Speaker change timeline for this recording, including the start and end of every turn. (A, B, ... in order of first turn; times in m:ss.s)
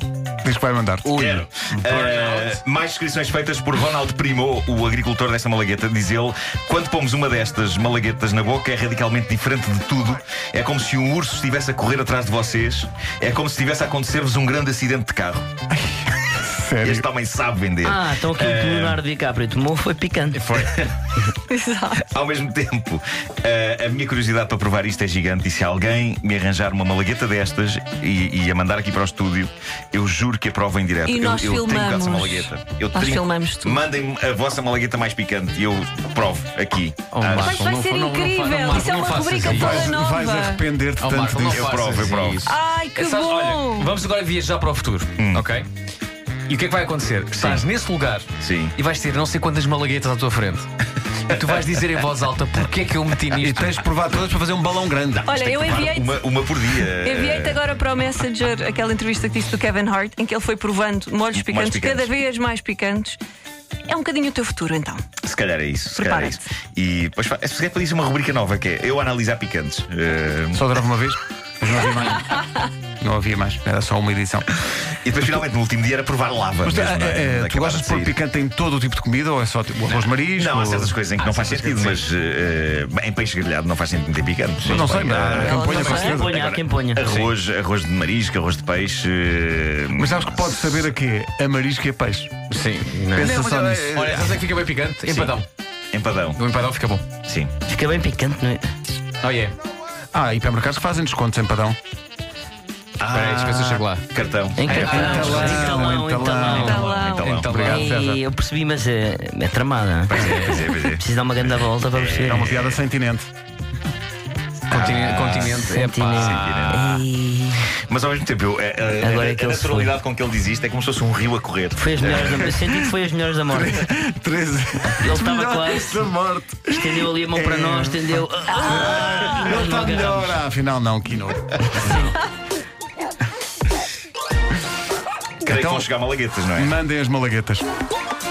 0:00.4-0:01.4 A
0:01.2-0:15.5 B
0:01.2-0:02.6 C
0:15.7-0:17.0 A
0:16.8-0:19.0 B
0:17.8-0:20.5 D
0:20.3-0:20.7 C
0:20.6-0:21.1 B
0:21.5-0:22.1 E
0:22.1-0:37.6 B
0:31.0-0:33.8 E
0:37.1-0:39.9 C
0:37.3-0:37.6 A
0:37.4-0:40.6 E
0:39.2-0:42.1 A
0:41.0-0:45.7 C
0:41.5-0:42.5 B
0:42.5-0:43.9 E
0:45.2-0:45.5 B
0:46.5-0:50.7 C
0:47.3-0:47.6 B
0:48.4-0:48.8 B
0:51.2-0:53.8 C
0:53.3-0:55.3 A
0:55.2-0:57.6 B
0:55.3-0:56.2 E
0:56.9-1:03.2 E
1:01.4-1:02.1 B
1:03.9-1:05.0 E
1:05.2-1:10.7 B
1:05.9-1:06.4 E
1:10.5-1:12.4 A
1:13.0-1:14.6 A
1:15.0-1:18.2 B
1:16.6-1:21.0 A
1:20.4-1:25.7 B
1:21.2-1:22.0 C
1:24.6-1:26.4 A
1:25.0-1:27.3 C
1:25.6-1:26.2 E
1:25.6-1:27.1 D
1:26.9-1:30.9 B
1:30.0-1:32.3 A
1:32.5-1:35.5 C
1:33.1-1:34.3 A
1:33.2-1:34.4 B
1:35.1-1:35.4 B
1:35.9-1:36.4 B
1:36.4-1:37.1 C
1:37.2-1:37.5 B
1:37.7-1:38.8 D
1:39.2-1:39.5 C
1:40.1-1:41.8 A
1:43.0-1:45.7 B
1:43.1-1:44.0 C
1:44.6-1:50.3 D
1:44.6-1:48.2 A
1:44.7-1:45.8 C
1:46.4-1:47.3 E
1:46.7-1:47.6 B
1:47.2-1:47.9 C
1:50.1-1:51.0 B
1:50.1-1:50.7 C
1:50.8-1:52.5 D
1:51.9-1:52.8 B
1:52.2-1:53.3 A
1:54.7-1:56.8 C
1:54.7-1:57.1 B
1:55.6-1:57.6 D
1:57.9-2:02.8 B
1:59.0-2:00.0 D
2:01.8-2:03.8 D
2:02.1-2:02.5 A
2:03.5-2:12.2 A
2:05.0-2:06.0 D
2:06.7-2:10.4 D
2:11.7-2:12.1 D
2:15.4-2:16.8 B
2:15.4-2:15.9 A
2:16.5-2:17.6 A